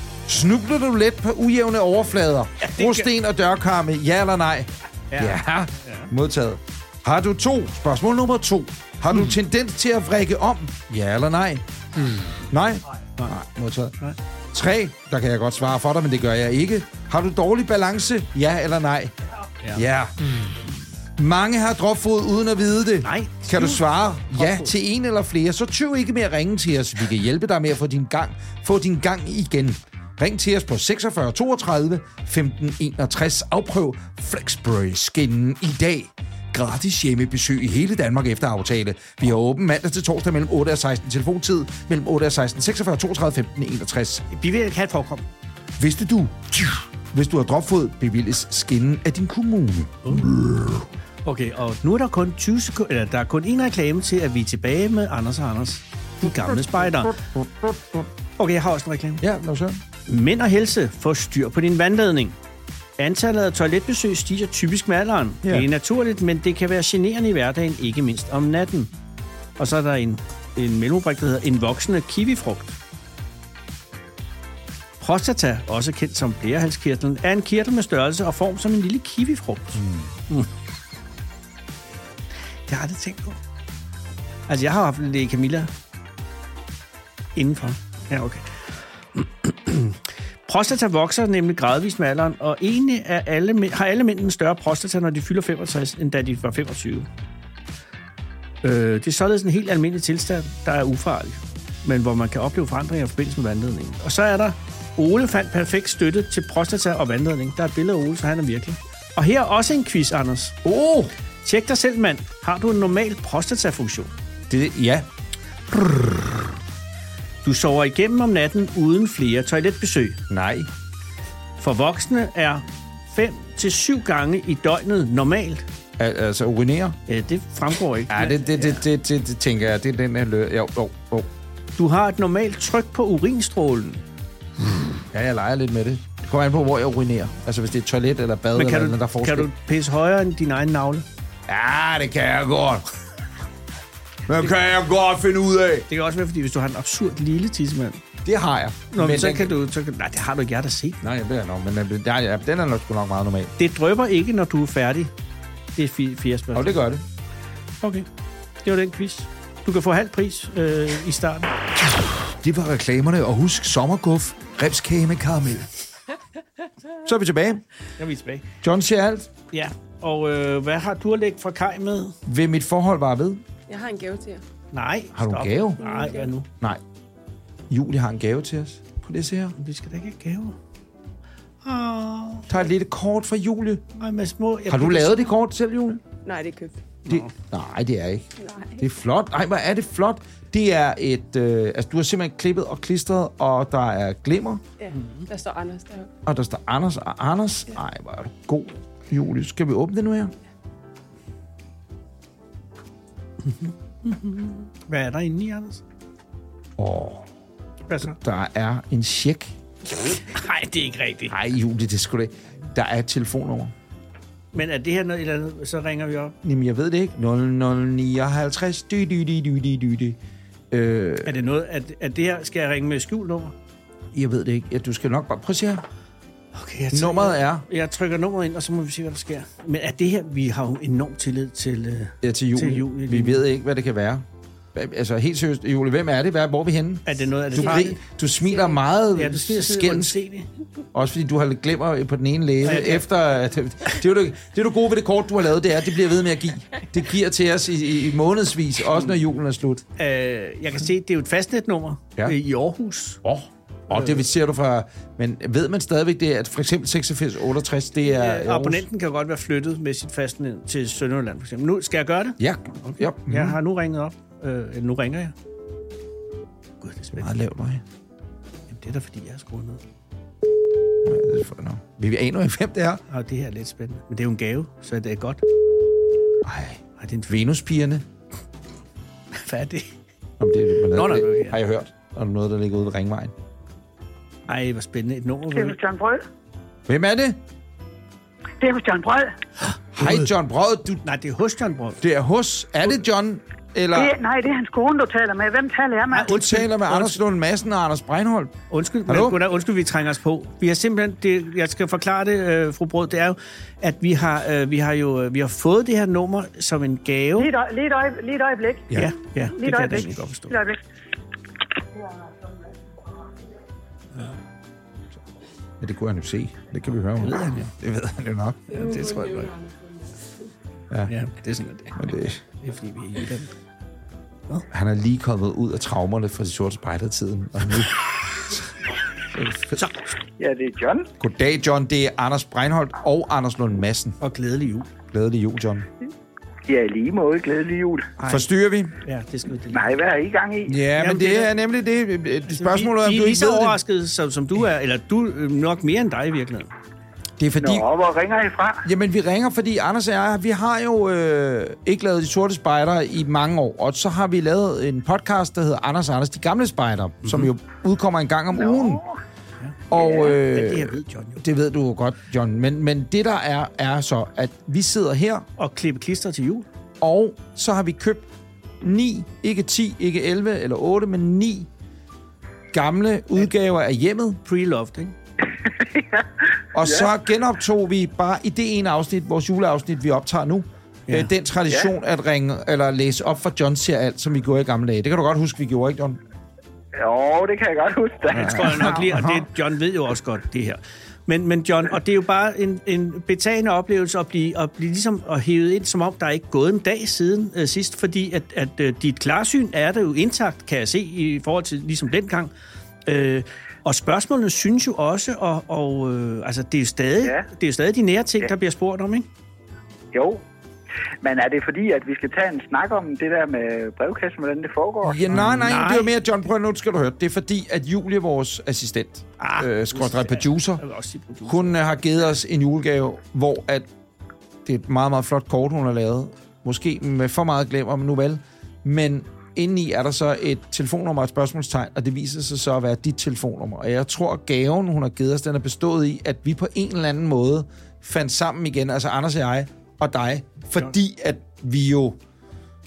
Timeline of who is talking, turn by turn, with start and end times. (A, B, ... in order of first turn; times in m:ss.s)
0:00.3-0:11.6 A
0:02.6-0:03.1 B
0:05.1-0:06.1 B
0:12.5-0:14.0 A
0:14.5-0:19.2 A
0:19.7-0:20.6 A
0:21.2-0:44.3 A
0:23.0-0:24.7 B
0:44.3-0:45.3 B
0:45.8-0:50.9 A
0:51.2-0:57.2 B
0:57.2-0:58.1 A
0:58.4-0:59.2 B
0:59.2-0:59.8 A
1:00.1-1:02.4 B
1:03.0-1:08.9 B
1:09.6-1:12.8 B
1:15.0-1:20.5 B
1:19.8-1:20.1 A
1:22.7-1:23.4 B
1:24.5-1:25.7 B
1:27.4-1:37.1 B
1:38.6-1:50.6 B
1:50.6-1:51.1 A
1:51.4-1:54.1 B
1:54.5-1:55.1 A
1:55.7-1:56.4 A
1:57.4-2:00.2 B
2:00.3-2:00.7 A
2:01.6-2:05.6 B
2:06.0-2:07.0 A
2:07.1-2:08.8 B
2:08.1-2:11.3 A
2:11.8-2:14.0 B
2:15.1-2:19.5 A
2:18.6-2:21.1 B
2:21.5-2:22.8 A
2:24.3-2:25.9 A
2:25.9-2:28.0 B
2:28.2-2:29.5 A
2:28.9-2:31.0 B
2:31.0-2:33.5 A
2:33.6-2:35.1 B
2:35.8-2:36.8 B
2:36.5-2:37.0 A
2:37.8-2:38.1 B
2:38.6-2:41.5 B
2:41.9-2:45.7 A
2:47.0-2:47.6 A
2:48.0-2:48.5 B
2:48.6-2:49.3 A
2:49.5-2:52.2 B
2:52.3-2:53.4 A
2:53.7-2:54.4 C
2:54.7-2:56.5 B
2:55.2-2:55.8 A
2:55.8-2:56.3 C
2:57.7-2:59.6 A
2:59.6-3:00.6 B
3:01.6-3:02.6 B
3:02.5-3:03.8 A
3:04.0-3:05.3 B
3:04.7-3:06.0 A
3:06.2-3:06.8 C
3:07.1-3:07.3 B
3:07.1-3:08.3 A
3:08.4-3:08.8 C
3:08.8-3:14.6 A
3:14.8-3:16.1 C
3:14.9-3:15.3 B
3:16.3-3:20.3 A
3:23.4-3:25.8 B
3:26.8-3:27.3 A
3:27.9-3:28.2 B
3:28.0-3:29.5 A
3:30.0-3:31.4 B
3:31.3-3:33.7 A
3:34.5-3:36.4 B
3:36.4-3:40.2 A
3:40.7-3:41.4 A
3:41.2-3:43.6 B
3:44.1-3:45.8 A
3:46.5-3:53.4 B
3:46.9-3:47.6 A
3:52.2-4:00.2 A
3:57.1-3:58.0 B
3:58.6-4:00.5 B
4:00.9-4:09.8 A
4:02.6-4:03.1 B
4:10.0-4:13.2 B
4:13.2-4:18.8 A
4:13.9-4:14.2 B
4:18.0-4:25.3 B
4:22.4-4:23.6 A
4:26.8-4:27.3 B
4:27.2-4:27.8 A
4:28.7-4:29.8 B
4:31.0-4:33.0 A
4:33.1-4:35.4 B
4:36.4-4:38.0 A
4:37.0-4:37.3 B
4:39.3-4:40.0 B
4:40.4-4:43.3 A
4:40.9-4:41.6 B
4:44.5-4:45.8 B
4:45.5-4:46.3 D
4:46.9-4:47.4 A
4:48.6-4:49.4 D
4:50.0-4:51.0 A
4:50.0-4:50.3 B
4:51.0-4:52.0 B
4:52.0-4:54.2 A
4:53.9-4:56.4 D
4:56.1-4:57.2 B
4:56.3-4:59.4 A
4:58.7-5:07.5 B
5:07.4-5:09.0 D
5:08.9-5:10.6 B
5:09.6-5:10.8 D
5:15.8-5:19.1 A
5:17.2-5:17.7 B
5:18.7-5:20.3 C
5:18.8-5:19.5 B
5:21.1-5:22.0 B
5:22.0-5:22.4 A
5:22.6-5:23.6 B
5:24.7-5:28.7 A
5:29.3-5:29.8 A
5:29.8-5:30.1 B
5:30.4-5:31.1 E
5:31.2-5:34.2 A
5:34.2-5:34.9 B
5:35.1-5:35.9 A
5:36.7-5:38.1 E
5:38.2-5:38.5 B
5:38.3-5:39.0 A
5:39.0-5:40.0 B
5:39.7-5:40.8 E
5:40.7-5:43.8 A
5:40.9-5:41.5 B
5:42.5-5:46.7 B
5:47.4-5:47.9 A
5:47.6-5:48.9 E
5:48.8-5:59.0 A
5:57.2-5:57.5 B
5:58.6-5:59.1 E
5:59.6-6:01.4 B
5:59.9-6:05.5 A
5:59.9-6:00.4 E
6:05.6-6:06.7 B
6:07.0-6:08.3 A
6:08.8-6:11.7 A
6:12.7-6:14.4 A
6:14.4-6:15.2 B
6:15.6-6:16.3 E
6:16.7-6:26.2 A
6:16.8-6:17.1 E
6:27.0-6:28.9 E
6:28.3-6:42.5 B
6:28.4-6:29.5 A
6:43.1-6:49.3 B
6:47.2-6:47.5 E
6:50.1-6:50.4 E
6:51.2-6:55.3 E
6:55.0-7:00.8 A
6:55.3-6:56.2 B
6:59.4-7:01.8 B
7:01.4-7:03.9 A
7:04.6-7:22.2 A